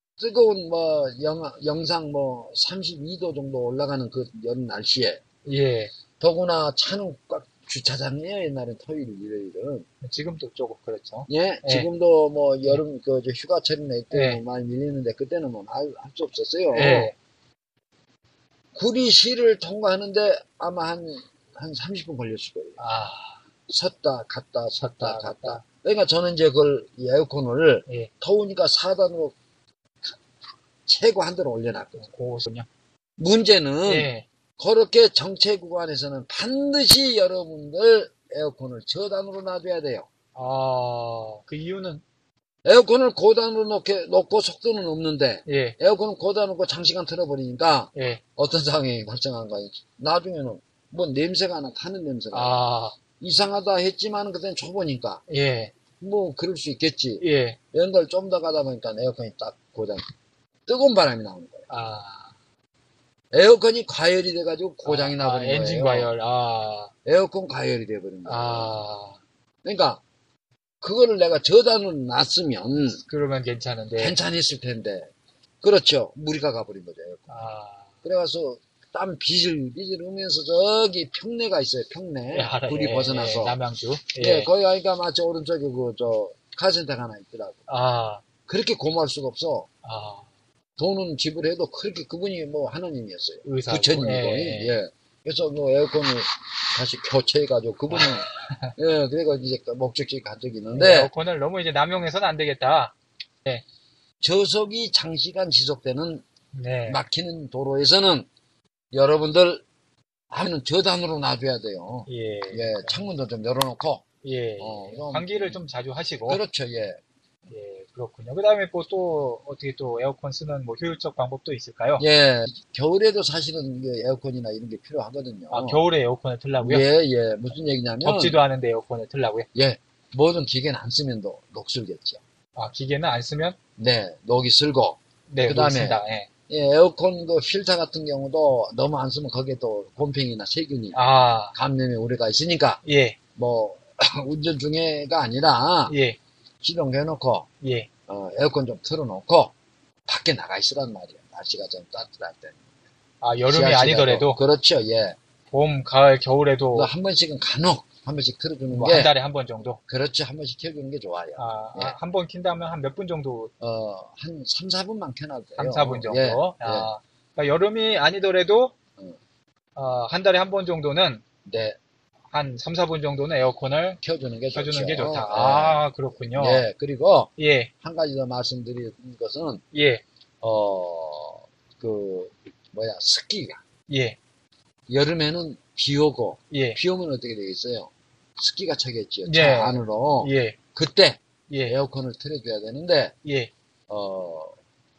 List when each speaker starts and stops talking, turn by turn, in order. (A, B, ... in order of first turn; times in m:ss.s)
0:00.2-0:05.2 A
0:05.4-0:05.9 B
0:06.2-0:09.9 A
0:10.0-0:11.9 B
0:11.3-0:17.1 A
0:14.1-0:14.4 B
0:16.7-0:17.2 B
0:18.7-0:22.8 A
0:22.8-0:23.4 B
0:23.7-0:29.4 A
0:24.8-0:25.6 B
0:27.9-0:28.1 B
0:30.9-0:32.1 A
0:32.0-0:32.7 B
0:33.2-0:40.1 A
0:33.8-0:34.3 B
0:40.4-0:42.0 B
0:42.6-0:52.6 A
0:45.5-0:45.8 B
0:47.9-0:48.2 B
0:52.3-0:53.0 B
0:53.2-0:55.2 A
0:55.3-0:55.7 B
0:56.0-1:00.0 A
0:57.2-0:57.6 B
1:00.7-1:01.7 A
1:01.7-1:02.3 B
1:03.3-1:06.1 A
1:04.8-1:06.9 B
1:07.0-1:08.8 A
1:08.2-1:09.2 B
1:09.6-1:10.0 A
1:10.8-1:13.0 A
1:13.0-1:14.2 B
1:14.0-1:15.1 A
1:15.6-1:17.3 A
1:17.3-1:17.9 B
1:18.0-1:23.6 A
1:22.3-1:24.5 B
1:24.2-1:27.7 A
1:27.7-1:28.2 B
1:28.5-1:29.7 A
1:29.8-1:30.3 B
1:30.8-1:41.1 A
1:33.4-1:34.8 B
1:37.9-1:38.7 B
1:40.7-1:43.6 B
1:44.2-1:46.2 A
1:46.5-1:47.0 B
1:46.9-1:48.3 A
1:48.9-1:49.6 A
1:50.3-1:54.0 A
1:52.1-1:53.0 B
1:54.2-1:56.4 B
1:54.6-1:55.6 A
1:56.2-1:57.0 A
1:57.5-2:02.1 B
2:02.0-2:05.8 A
2:05.5-2:06.9 B
2:06.6-2:08.4 A
2:08.0-2:09.5 B
2:09.6-2:12.2 A
2:12.6-2:13.6 B
2:13.8-2:22.8 A
2:15.3-2:16.3 B
2:20.9-2:21.6 B
2:22.8-2:23.2 B
2:23.4-2:26.0 A
2:25.9-2:26.2 B
2:26.6-2:27.5 A
2:27.6-2:27.9 B
2:28.1-2:29.5 A
2:30.1-2:32.6 A
2:33.2-2:34.4 B
2:33.5-2:35.2 A
2:35.5-2:36.9 B
2:36.7-2:39.1 A
2:38.7-2:39.8 B
2:39.9-2:42.0 A
2:41.4-2:43.5 B
2:43.6-2:46.9 A
2:45.6-2:48.8 B
2:49.8-2:51.2 B
2:51.5-2:51.8 A
2:52.3-2:54.0 B
2:54.0-2:59.6 A
2:54.5-2:56.6 B
2:57.4-2:57.7 B
2:59.7-3:00.0 B
3:00.4-3:03.6 A
3:03.9-3:04.2 B
3:04.9-3:13.2 A
3:06.5-3:06.8 B
3:09.2-3:10.6 B
3:11.5-3:11.8 B
3:13.2-3:13.5 B
3:13.9-3:14.6 A